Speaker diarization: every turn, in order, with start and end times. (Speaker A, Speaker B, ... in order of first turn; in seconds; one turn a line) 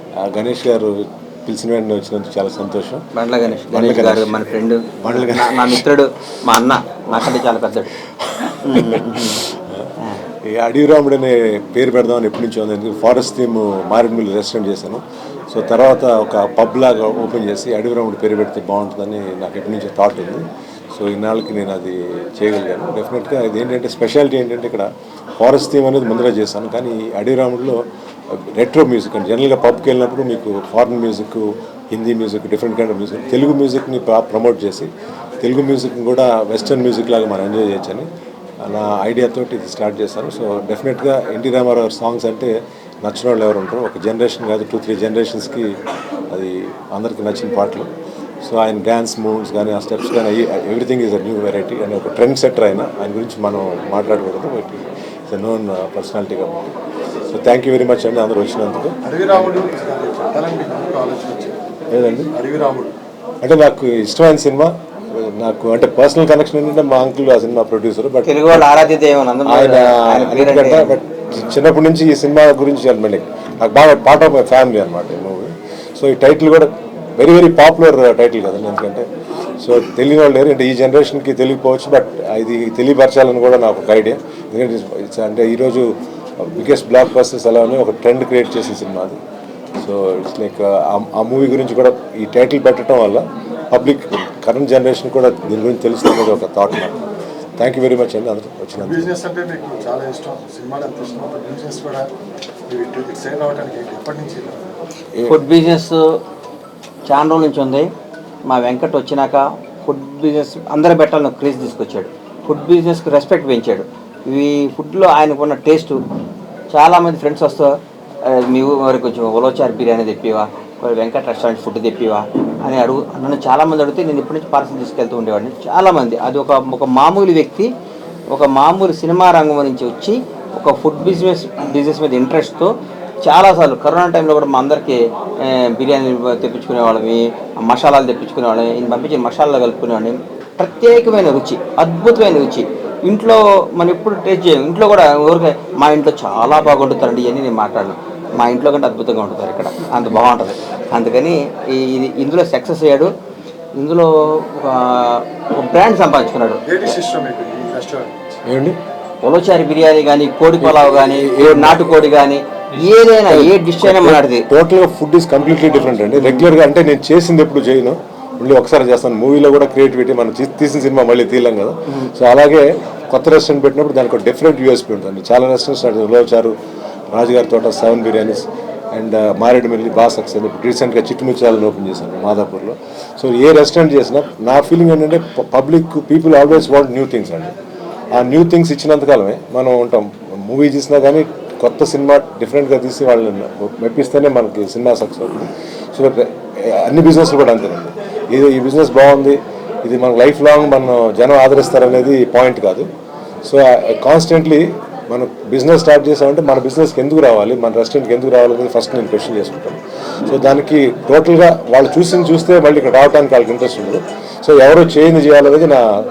Speaker A: 0.2-3.0
Speaker B: 3.1-7.9
Speaker A: 3.6-4.4
Speaker A: 5.0-5.9
Speaker A: 7.1-7.4
Speaker A: 8.2-24.9
Speaker B: 8.6-9.4
Speaker A: 25.4-27.8
Speaker A: 28.3-34.9
Speaker A: 35.4-38.1
Speaker A: 38.6-45.8
Speaker A: 46.3-47.9
Speaker A: 48.4-56.7
Speaker A: 57.3-59.0
Speaker C: 59.0-61.6
Speaker A: 61.9-62.3
Speaker C: 62.3-62.9
Speaker A: 63.4-68.9
Speaker B: 68.2-71.0
Speaker A: 69.5-79.1
Speaker A: 79.6-89.2
Speaker A: 89.8-97.0
Speaker A: 97.6-99.1
Speaker C: 98.8-102.1
Speaker C: 102.7-104.7
Speaker A: 105.2-105.4
Speaker B: 105.3-106.2
Speaker B: 107.1-107.9
Speaker B: 108.5-116.0
Speaker B: 116.7-127.7
Speaker B: 128.3-132.7
Speaker B: 133.2-153.1
Speaker B: 153.8-156.7
Speaker C: 156.7-158.4
Speaker A: 158.5-158.8
Speaker B: 159.2-164.5
Speaker A: 160.6-162.0
Speaker A: 163.3-176.6
Speaker B: 166.2-166.5
Speaker A: 177.1-187.5
Speaker A: 188.1-202.9
Speaker A: 203.4-215.8